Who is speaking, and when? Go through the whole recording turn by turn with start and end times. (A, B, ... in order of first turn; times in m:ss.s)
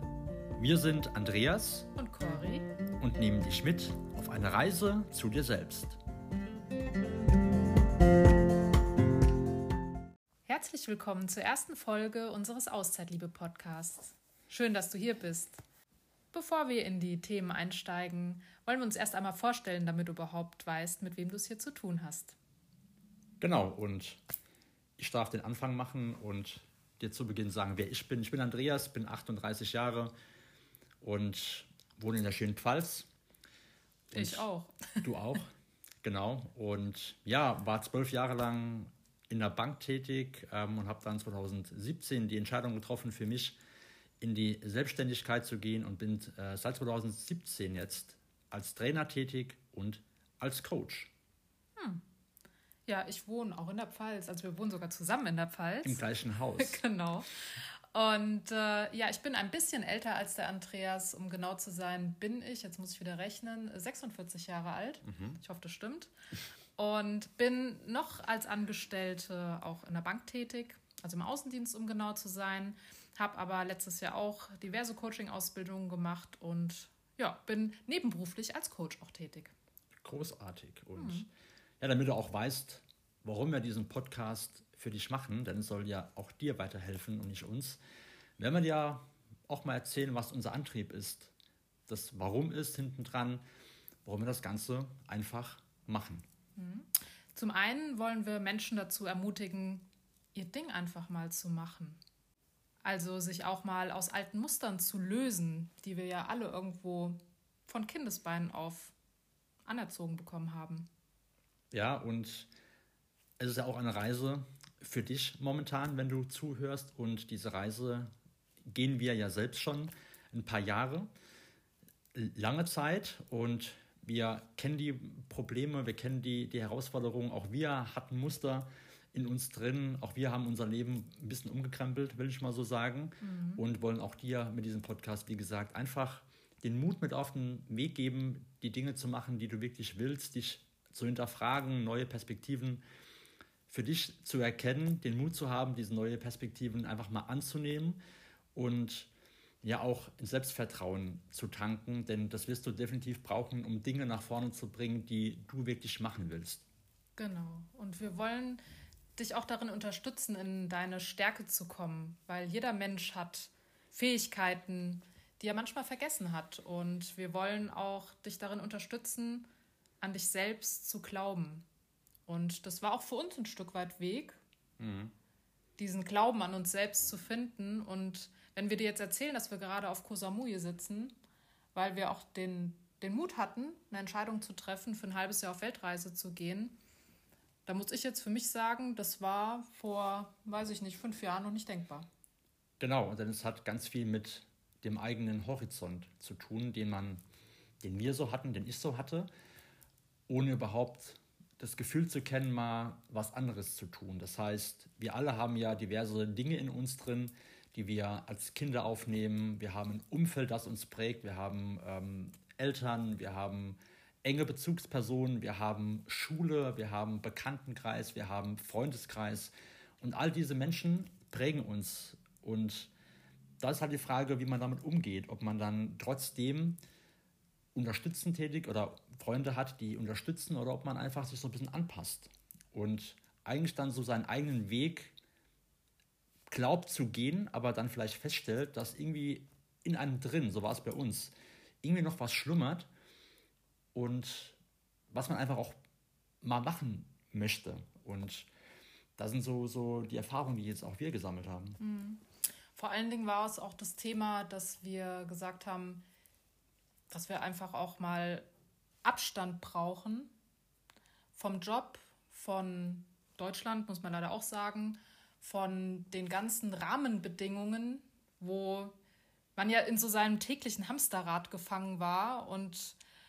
0:00.6-0:01.9 A
0:01.9-0:02.7 B
0:03.0-0:06.0 A
0:10.5-0:15.6 B
0:16.3-0:22.4 B
0:23.4-0:24.2 A
0:25.0-0:30.1 A
0:31.0-0:33.1 A
0:34.1-0:34.5 A
0:34.1-0:35.1 B
0:35.0-0:43.6 A
0:44.2-0:51.1 A
0:51.8-0:52.0 B
0:52.8-0:56.0 B
0:55.8-0:56.8 A
0:56.6-1:06.1 B
1:05.0-1:05.4 A
1:06.8-1:19.5 B
1:20.0-1:21.3 A
1:21.0-1:21.2 B
1:21.8-1:27.8 A
1:28.4-1:31.3 A
1:31.9-1:33.4 A
1:34.0-1:36.2 A
1:36.6-1:42.0 B
1:42.8-1:48.9 B
1:49.6-1:50.9 B
1:51.7-1:52.5 A
1:53.4-1:58.1 A
1:58.6-2:01.1 A
2:02.1-2:22.8 A
2:13.2-2:13.6 B
2:23.7-2:28.0 A
2:28.5-2:29.1 A
2:29.6-2:36.6 A
2:37.2-2:38.6 B
2:39.2-2:49.5 B
2:50.0-2:51.6 B
2:52.3-2:54.4 B
2:54.8-2:55.1 A
2:55.8-3:01.1 B
3:01.7-3:06.8 B
3:07.6-3:12.1 B
3:12.8-3:17.2 A
3:17.8-3:19.3 A
3:20.3-3:42.9 A
3:43.6-3:46.8 A
3:47.7-3:55.1 A
3:56.5-4:02.9 A
4:03.9-4:04.6 A
4:05.1-4:05.8 A
4:06.4-4:08.5 A
4:09.2-4:11.8 A
4:11.8-4:12.2 B
4:12.7-4:16.0 B
4:17.1-4:18.5 B
4:19.0-4:20.3 B
4:21.3-4:29.0 B
4:29.6-4:33.0 B